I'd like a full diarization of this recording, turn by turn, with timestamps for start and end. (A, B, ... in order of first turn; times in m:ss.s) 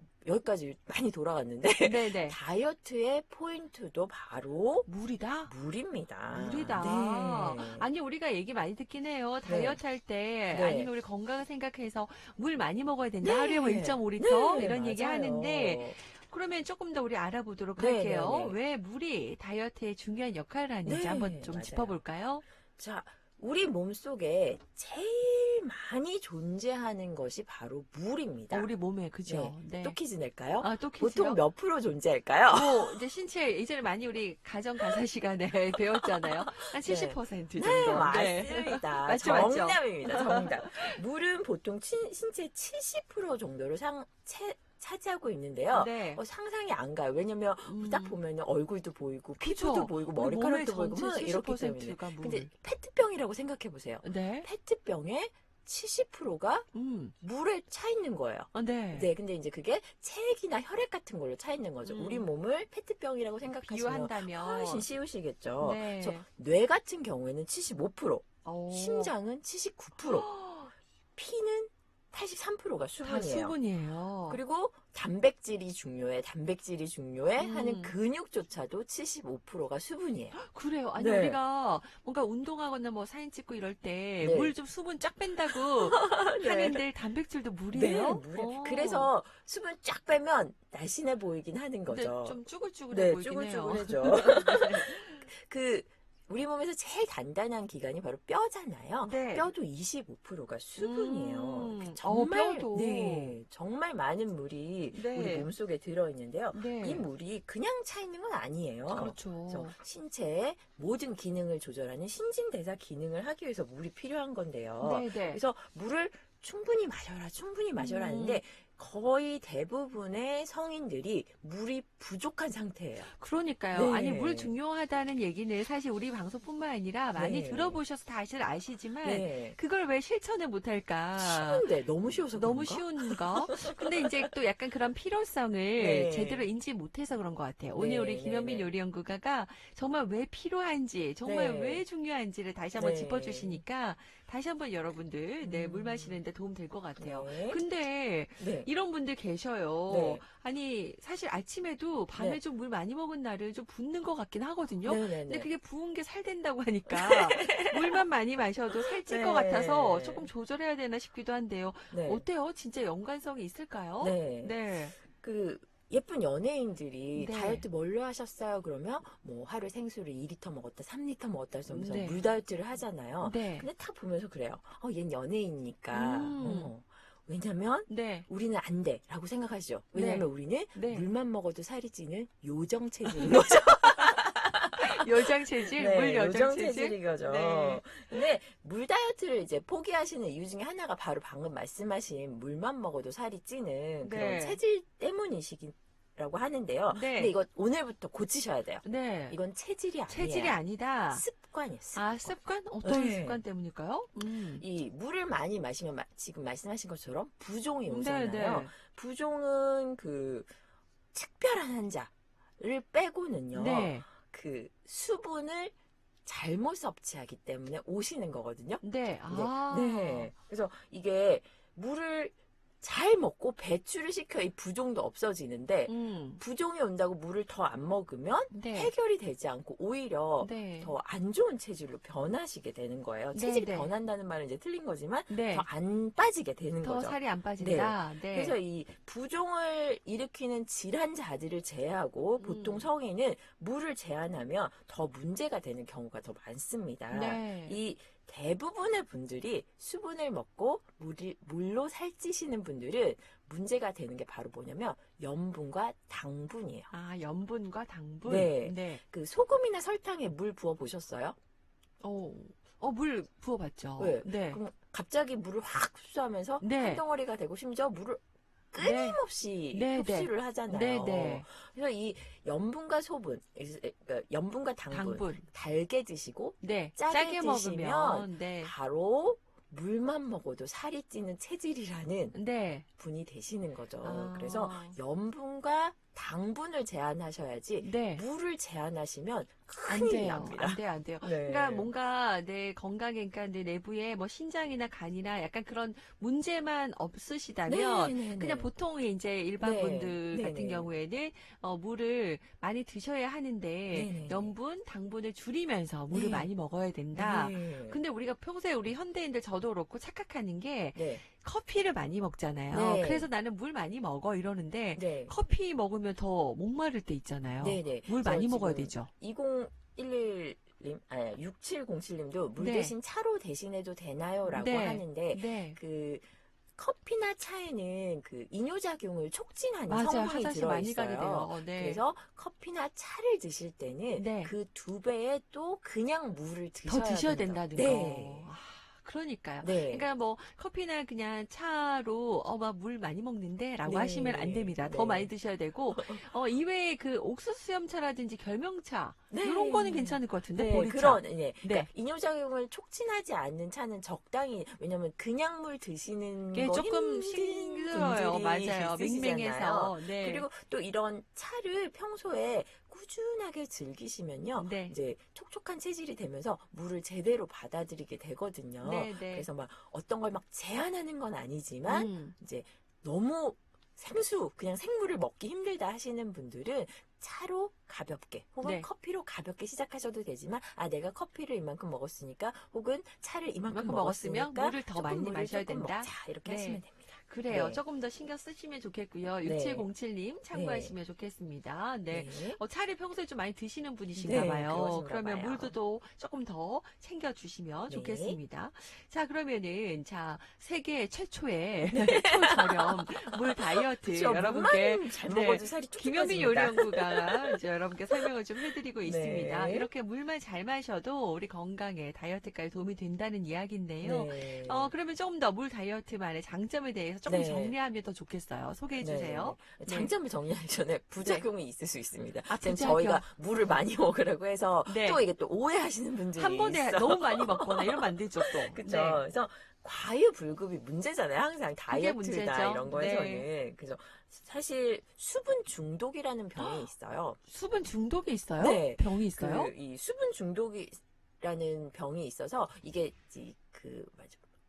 0:00.2-0:04.9 A
0:01.8-0:02.4 B
0:04.8-0:05.5 B
0:05.4-0:07.9 A
0:06.3-0:22.4 B
0:09.4-0:09.8 A
0:10.5-0:10.9 A
0:13.2-0:16.0 A
0:17.8-0:18.6 A
0:20.8-0:22.0 A
0:22.8-0:28.7 A
0:28.5-0:30.0 B
0:29.2-0:33.0 A
0:30.6-0:31.4 B
0:32.5-0:41.0 B
0:35.9-0:56.7 A
0:45.7-0:46.2 B
0:47.6-0:48.2 B
0:49.4-0:52.5 B
0:54.0-0:54.5 B
0:56.7-0:57.1 B
0:57.2-1:10.3 A
0:58.5-0:59.1 B
1:01.8-1:02.3 B
1:03.6-1:04.9 B
1:05.6-1:06.2 B
1:08.4-1:09.1 B
1:10.0-1:10.7 B
1:11.2-1:13.6 A
1:13.0-1:14.4 B
1:14.3-1:20.4 A
1:17.4-1:17.9 B
1:20.3-1:29.1 B
1:21.0-1:21.4 A
1:24.2-1:24.5 A
1:25.5-1:26.8 A
1:27.7-1:32.4 A
1:31.9-1:35.2 B
1:32.9-2:03.1 A
1:39.0-1:39.5 B
1:40.8-1:43.4 B
1:44.9-1:45.5 B
1:46.5-1:47.0 B
1:48.9-1:49.8 B
1:54.8-1:55.4 B
1:57.8-1:58.4 B
2:03.0-2:11.7 B
2:03.7-2:04.5 A
2:07.1-2:07.8 A
2:09.0-2:09.6 A
2:11.2-2:14.1 A
2:12.3-2:45.0 B
2:15.8-2:16.5 A
2:17.8-2:18.7 A
2:21.2-2:21.8 A
2:22.8-2:23.6 A
2:25.4-2:26.2 A
2:27.0-2:27.6 A
2:28.4-2:28.7 A
2:29.9-2:30.2 A
2:34.8-2:35.5 A
2:36.9-2:38.0 A
2:38.8-2:40.3 A
2:41.9-2:42.2 A
2:44.0-3:20.6 A
2:47.2-2:47.6 B
2:51.7-2:52.2 B
2:53.2-2:53.7 B
2:55.9-2:56.7 B
2:57.9-2:58.2 B
2:59.9-3:01.1 B
3:03.1-3:03.6 B
3:04.8-3:08.2 B
3:14.0-3:14.6 B
3:16.9-3:17.3 B
3:18.8-3:19.4 B
3:20.1-3:21.2 B
3:21.1-3:23.4 A
3:21.9-3:24.6 B
3:24.6-3:30.5 A
3:27.9-3:28.7 B
3:31.1-4:16.9 A
3:33.5-3:34.1 B
3:38.8-3:40.3 B
3:45.9-3:46.4 B
3:48.5-3:48.9 B
3:50.4-3:50.9 B
3:53.3-3:53.9 B
3:55.3-3:55.7 B
3:56.8-3:58.6 B
4:02.4-4:02.9 B
4:07.1-4:07.8 B
4:16.9-4:19.0 B
4:18.2-4:21.4 A
4:22.0-4:24.6 B
4:24.0-4:28.2 A
4:26.6-4:27.0 B
4:28.7-4:42.3 A
4:28.8-4:29.2 B
4:29.7-4:31.4 B
4:34.9-4:35.4 B
4:36.6-4:38.7 B
4:42.3-4:42.8 B
4:43.0-4:51.9 A
4:44.0-4:45.0 B
4:47.8-4:48.2 B
4:49.9-5:19.1 B
4:57.7-4:58.7 A
4:59.6-5:00.9 A
5:03.9-5:04.5 A
5:06.1-5:06.5 A
5:07.1-5:08.0 A
5:10.9-5:11.2 A
5:12.7-5:13.3 A
5:15.0-5:15.3 A
5:17.6-5:26.2 A
5:22.6-5:22.9 B
5:24.5-5:25.8 B
5:26.8-5:38.5 A
5:29.9-5:32.0 B
5:34.2-5:34.5 B
5:36.8-5:51.9 B
5:39.6-5:40.1 A
5:43.8-5:45.3 A
5:45.9-5:46.3 A
5:49.3-6:27.8 A
5:56.5-6:00.5 B
6:04.6-6:05.0 B
6:08.8-6:09.5 B
6:11.8-6:12.3 B
6:23.7-7:00.1 B
6:29.4-6:29.9 A
6:30.5-6:30.9 A
6:32.1-6:32.6 A
6:34.2-6:35.8 A
6:37.9-6:38.4 A
6:41.9-6:47.6 A
6:49.0-6:49.9 A
6:54.0-6:54.9 A
6:57.2-6:57.8 A
6:59.0-7:17.4 A
7:01.2-7:01.4 B
7:02.5-7:03.3 B
7:04.8-7:05.2 B
7:06.4-7:09.2 B
7:11.9-7:13.5 B
7:16.6-7:16.8 B
7:17.5-7:19.7 B
7:18.6-7:24.4 A